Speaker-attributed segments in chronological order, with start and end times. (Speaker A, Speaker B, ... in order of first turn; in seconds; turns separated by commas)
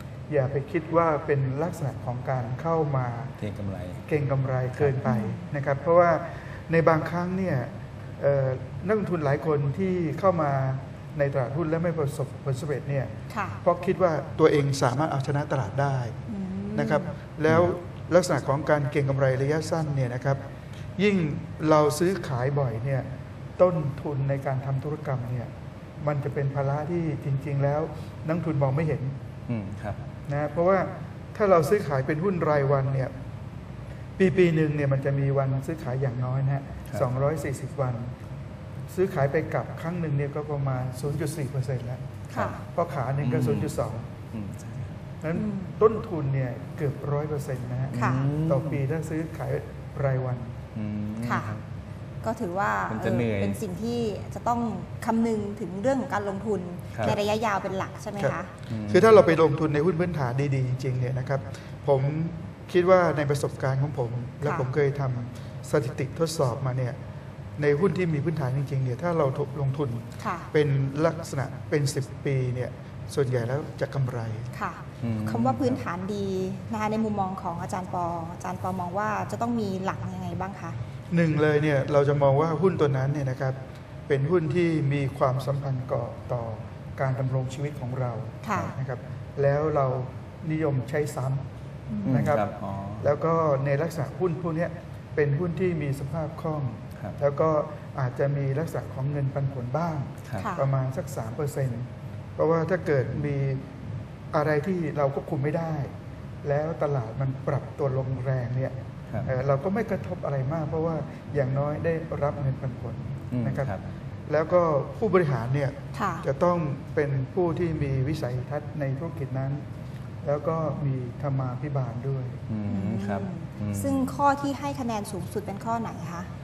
Speaker A: 0.3-3.4, Speaker B: 3.4-4.0, Speaker A: 4.1-13.1, Speaker C: 5.0-5.5, Speaker C: 13.3-13.6, Speaker A: 13.6-16.1, Speaker C: 16.3-17.1, Speaker A: 16.7-20.4, Speaker A: 21.0-25.5, Speaker A: 26.0-29.2, Speaker B: 29.5-30.0, Speaker A: 30.3-33.1, Speaker A: 34.2-38.1, Speaker A: 38.9-42.0, Speaker C: 42.3-42.6, Speaker A: 42.7-44.1, Speaker B: 43.2-43.8, Speaker B: 44.3-44.9, Speaker A: 45.2-50.6, Speaker C: 45.3-45.8, Speaker B: 47.9-48.8, Speaker C: 48.0-48.2, Speaker B: 50.8-51.6, Speaker C: 51.2-51.5, Speaker C: 52.2-58.5, Speaker B: 52.9-53.6, Speaker B: 58.7-59.1, Speaker A: 58.9-67.0, Speaker C: 64.4-64.7, Speaker A: 67.6-74.5, Speaker C: 70.2-70.5, Speaker C: 74.5-80.8, Speaker B: 75.0-75.8, Speaker A: 81.1-91.5, Speaker C: 88.4-88.8, Speaker B: 88.5-88.8, Speaker C: 91.9-92.3, Speaker A: 92.0-92.5, Speaker B: 92.0-93.1, Speaker A: 93.0-103.7, Speaker C: 100.4-100.7, Speaker A: 104.3-113.8, Speaker B: 113.3-113.8, Speaker A: 114.3-119.7, Speaker C: 115.9-116.3, Speaker A: 120.2-122.4, Speaker B: 122.5-124.1, Speaker C: 122.7-126.3